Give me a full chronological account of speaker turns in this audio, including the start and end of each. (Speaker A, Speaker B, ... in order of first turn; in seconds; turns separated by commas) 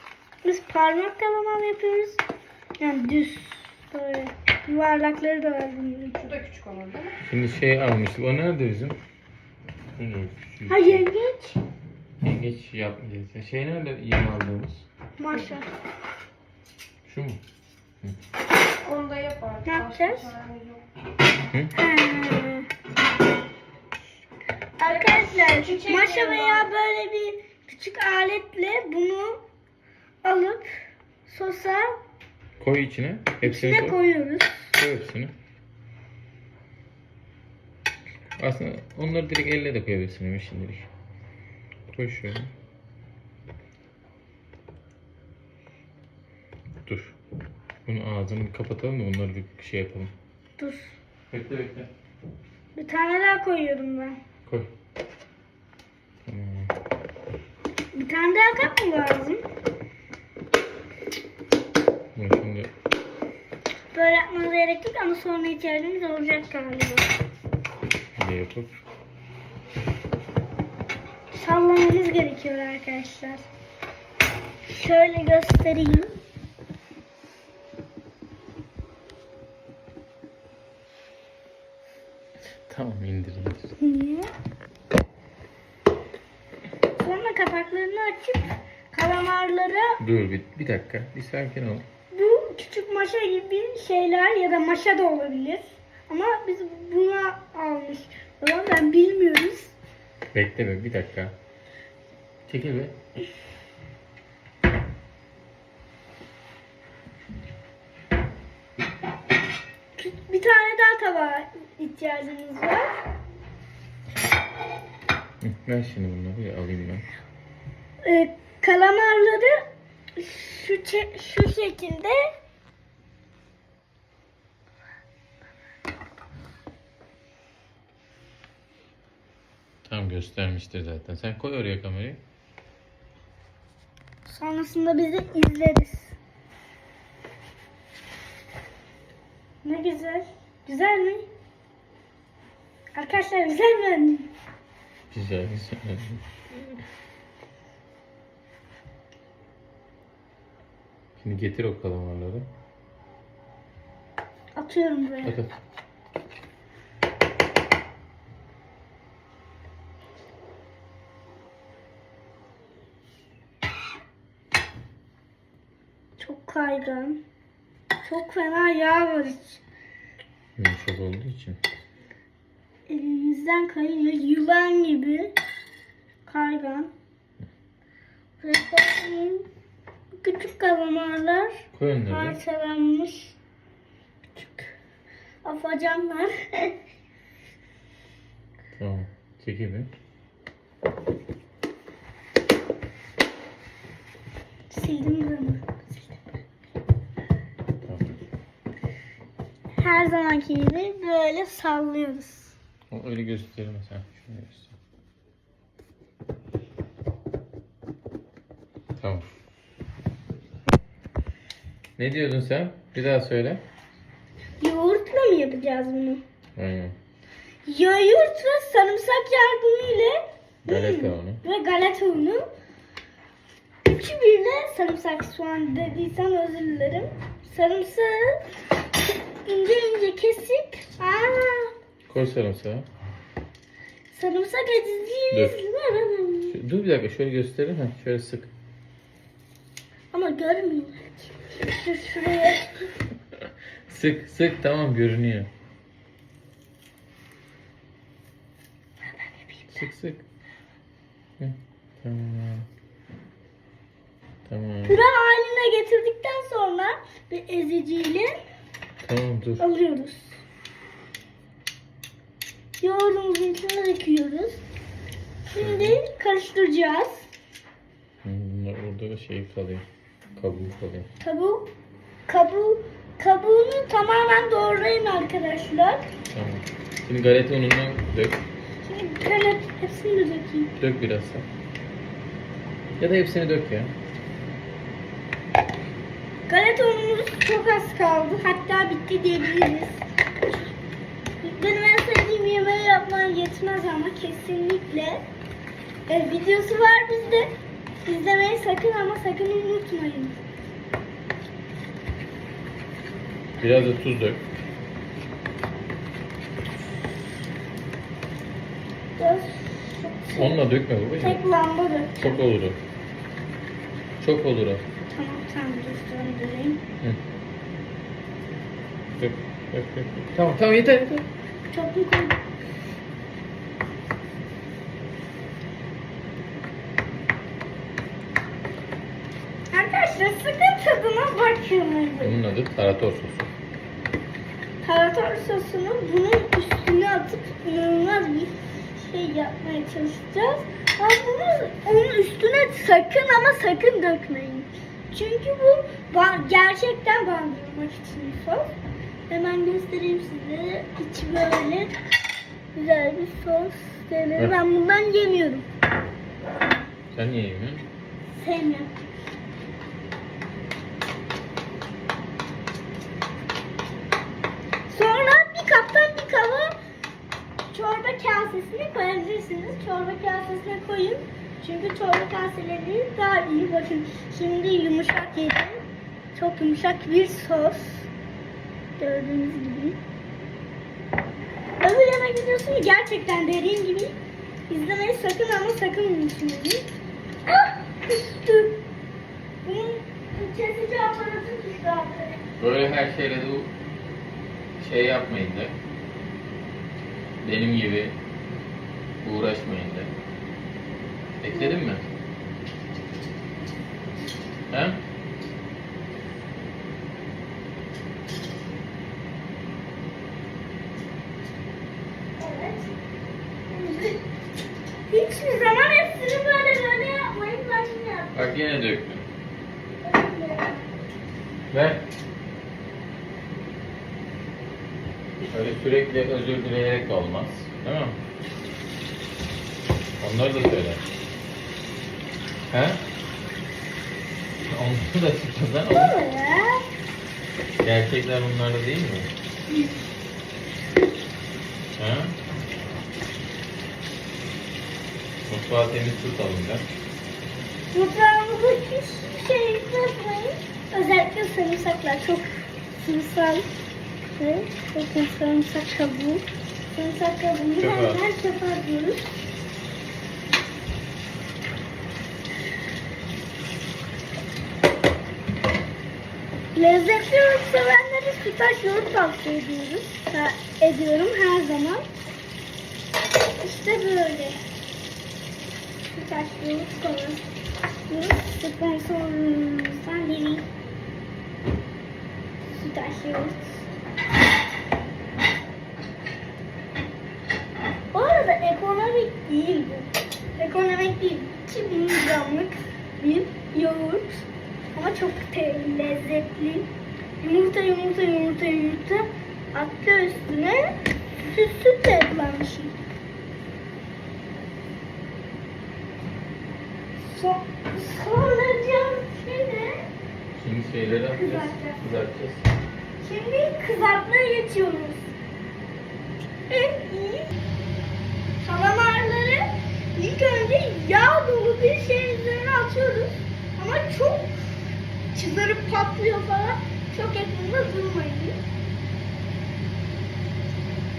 Speaker A: 0.4-2.2, Speaker A: 2.8-6.2, Speaker B: 6.2-7.2, Speaker C: 7.2-9.0, Speaker C: 10.0-11.1, Speaker A: 10.7-11.6, Speaker C: 12.2-14.8, Speaker A: 15.2-15.7, Speaker C: 17.1-17.4, Speaker B: 18.8-20.8, Speaker A: 19.6-20.3, Speaker A: 21.7-22.7, Speaker A: 24.8-29.4, Speaker B: 24.9-26.6, Speaker A: 30.2-30.7, Speaker A: 31.3-32.0, Speaker C: 32.6-34.0, Speaker A: 33.4-34.7, Speaker C: 34.7-35.3, Speaker C: 38.4-40.9, Speaker C: 41.9-42.5, Speaker C: 46.9-47.2, Speaker C: 47.9-50.1, Speaker A: 50.6-51.0, Speaker C: 51.3-51.9, Speaker A: 52.7-54.2, Speaker C: 56.3-56.7, Speaker A: 57.9-59.4, Speaker C: 62.1-62.7, Speaker A: 63.9-67.1, Speaker C: 68.2-68.7, Speaker A: 71.3-73.5, Speaker A: 74.7-76.1, Speaker C: 82.7-83.7, Speaker A: 83.8-84.3, Speaker A: 87.0-90.0, Speaker C: 90.0-91.8, Speaker A: 92.1-99.7, Speaker C: 100.3-101.3, Speaker C: 102.5-103.0, Speaker A: 110.0-113.0, Speaker C: 115.4-117.0, Speaker A: 118.0-119.6, Speaker A: 120.2-122.2, Speaker C: 129.9-132.2, Speaker A: 134.2-136.2, Speaker A: 139.6-141.3, Speaker A: 142.9-144.3, Speaker C: 145.1-146.6, Speaker C: 151.2-152.5, Speaker A: 154.5-155.4, Speaker C: 155.2-155.5, Speaker A: 166.2-167.2, Speaker A: 168.0-169.6, Speaker C: 170.6-171.6, Speaker A: 172.9-175.3, Speaker A: 176.3-176.9, Speaker A: 178.4-179.5, Speaker A: 180.2-183.3, Speaker C: 181.7-182.4, Speaker A: 184.4-184.7, Speaker A: 185.4-186.8, Speaker C: 188.8-189.9, Speaker A: 194.7-196.4, Speaker C: 197.9-198.2, Speaker A: 199.8-202.5, Speaker C: 202.9-204.7, Speaker C: 209.0-209.3, Speaker C: 212.0-213.6, Speaker A: 214.6-216.2, Speaker C: 216.6-216.9, Speaker A: 217.7-222.4, Speaker C: 220.7-221.4, Speaker A: 223.8-228.5, Speaker A: 229.4-231.7, Speaker C: 232.1-232.9, Speaker A: 234.1-236.6, Speaker C: 235.3-235.6, Speaker C: 236.5-238.5, Speaker A: 240.1-242.9, Speaker C: 243.9-245.5, Speaker A: 249.1-249.8, Speaker C: 249.7-250.2, Speaker C: 251.4-252.7, Speaker C: 254.5-255.0, Speaker A: 254.9-258.4, Speaker C: 259.0-259.6, Speaker A: 259.6-260.4, Speaker A: 262.8-264.6, Speaker A: 265.5-267.3, Speaker C: 265.5-266.0, Speaker C: 268.2-269.9, Speaker C: 270.4-271.1, Speaker A: 271.2-271.7, Speaker A: 272.3-276.1, Speaker C: 276.3-278.4, Speaker A: 278.9-280.7, Speaker C: 280.8-281.5, Speaker C: 283.0-283.9, Speaker A: 286.5-290.1, Speaker A: 291.4-295.2, Speaker A: 296.1-297.5, Speaker A: 298.0-300.4, Speaker C: 303.6-304.4, Speaker A: 309.2-310.6, Speaker C: 310.4-311.4, Speaker A: 311.2-312.4, Speaker C: 312.2-312.8, Speaker C: 314.2-314.8, Speaker A: 315.1-316.8, Speaker C: 319.2-321.2, Speaker A: 321.7-322.4, Speaker A: 329.7-332.4, Speaker C: 332.2-333.5, Speaker A: 334.8-348.7, Speaker A: 349.3-352.0, Speaker A: 352.8-355.6, Speaker C: 357.1-357.9, Speaker A: 358.3-359.0, Speaker A: 364.9-366.8, Speaker A: 367.7-375.8, Speaker A: 376.4-378.1, Speaker A: 379.0-380.0, Speaker A: 381.8-384.1, Speaker A: 384.7-386.9, Speaker A: 387.5-388.8, Speaker A: 389.6-392.4, Speaker C: 392.6-393.7, Speaker C: 394.8-395.8, Speaker C: 397.4-398.2, Speaker C: 399.2-400.1, Speaker C: 401.4-402.1, Speaker A: 401.5-401.8, Speaker C: 404.7-405.0, Speaker A: 412.4-412.9, Speaker A: 413.7-414.2, Speaker A: 415.1-418.4, Speaker C: 418.3-419.2, Speaker A: 420.0-420.9, Speaker C: 421.7-422.1, Speaker C: 425.5-428.2, Speaker C: 430.2-431.1, Speaker C: 432.7-433.0, Speaker C: 434.6-436.1, Speaker A: 435.9-436.8, Speaker C: 437.8-439.3, Speaker A: 439.7-439.9, Speaker C: 442.0-442.4, Speaker C: 445.5-446.9, Speaker A: 447.9-453.7, Speaker A: 454.4-459.3, Speaker C: 457.8-458.2, Speaker A: 466.8-472.1, Speaker A: 473.6-474.6, Speaker A: 476.1-477.5, Speaker A: 478.1-480.6, Speaker A: 482.7-483.9, Speaker A: 488.1-496.9, Speaker A: 497.4-503.0, Speaker A: 507.2-510.1, Speaker C: 510.6-512.7, Speaker A: 511.3-512.0, Speaker A: 513.2-515.3, Speaker A: 516.7-517.5, Speaker A: 518.6-524.6, Speaker A: 525.3-528.6